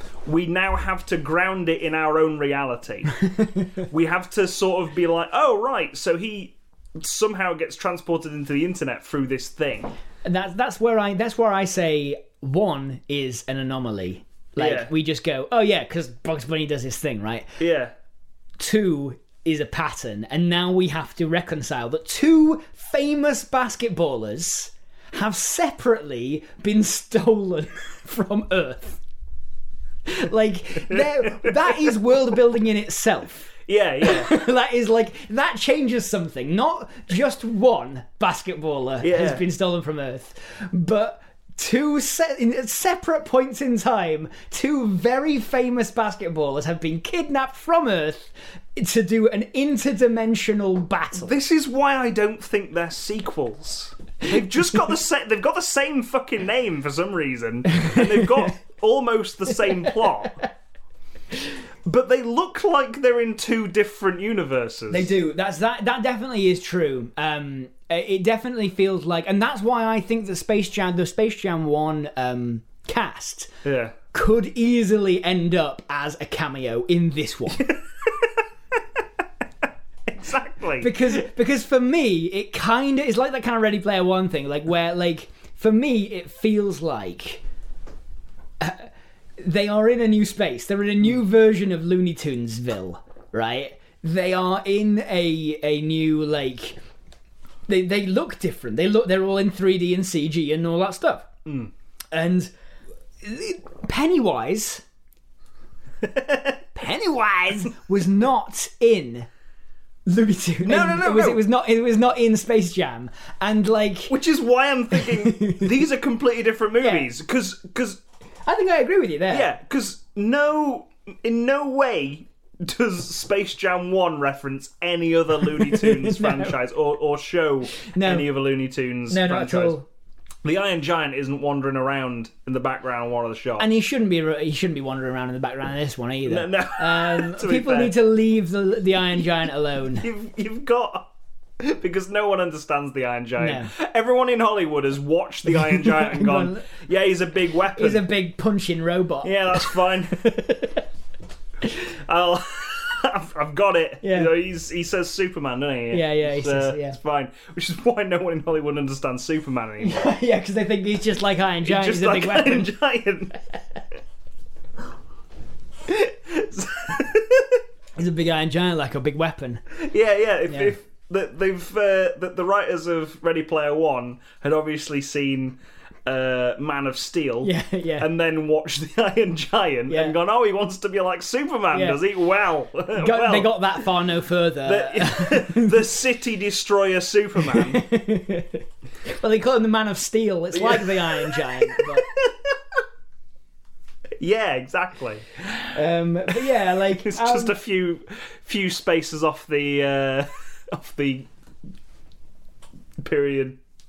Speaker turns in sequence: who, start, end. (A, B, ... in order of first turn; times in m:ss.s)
0:00.2-0:03.2 A
0:03.9-0:09.9 A
0:10.2-0:17.6 B
0:14.6-0:14.9 A
0:17.6-0:17.9 A
0:18.6-0:29.0 B
0:30.1-0:51.4 B
0:30.9-0:31.9 A
0:33.6-0:34.4 A
0:39.0-0:39.4 A
0:51.1-1:00.4 A
0:57.7-0:58.2 B
1:01.8-1:05.1 A
1:04.9-1:13.5 B
1:13.6-1:14.0 A
1:14.1-1:17.7 B
1:17.6-1:18.4 A
1:20.1-1:20.9 A
1:20.8-1:27.4 B
1:28.6-1:36.8 B
1:37.7-1:41.3 B
1:41.4-1:41.7 A
1:42.1-1:42.5 B
1:43.2-1:44.8 B
1:46.0-1:46.4 A
1:46.7-1:49.3 B
1:50.0-1:54.2 B
1:50.6-1:51.4 A
1:54.1-1:58.0 A
1:54.9-1:55.6 B
1:56.8-1:57.1 B
1:58.4-1:59.5 B
1:59.3-2:09.8 A
2:05.5-2:06.6 B
2:07.7-2:08.3 B
2:09.1-2:09.8 B
2:10.4-2:13.7 A
2:13.6-2:20.1 B
2:16.3-2:18.0 A
2:20.0-2:21.1 A
2:21.6-2:28.0 A
2:23.4-2:23.7 B
2:25.4-2:26.7 B
2:27.8-2:29.9 B
2:29.2-2:30.6 A
2:30.4-2:30.7 B
2:31.8-2:40.1 A
2:34.0-2:34.3 B
2:35.9-2:37.0 B
2:39.8-2:42.7 B
2:41.6-2:43.4 A
2:45.8-2:47.6 A
2:48.0-2:49.6 B
2:49.7-3:03.8 A
2:50.5-2:50.7 B
2:57.4-2:58.1 B
2:59.9-3:00.1 B
3:01.7-3:02.0 B
3:02.9-3:05.9 B
3:04.6-3:07.8 A
3:07.4-3:12.1 B
3:10.5-3:12.4 A
3:14.2-3:15.4 A
3:15.6-3:17.6 B
3:16.4-3:21.3 A
3:23.0-3:23.6 A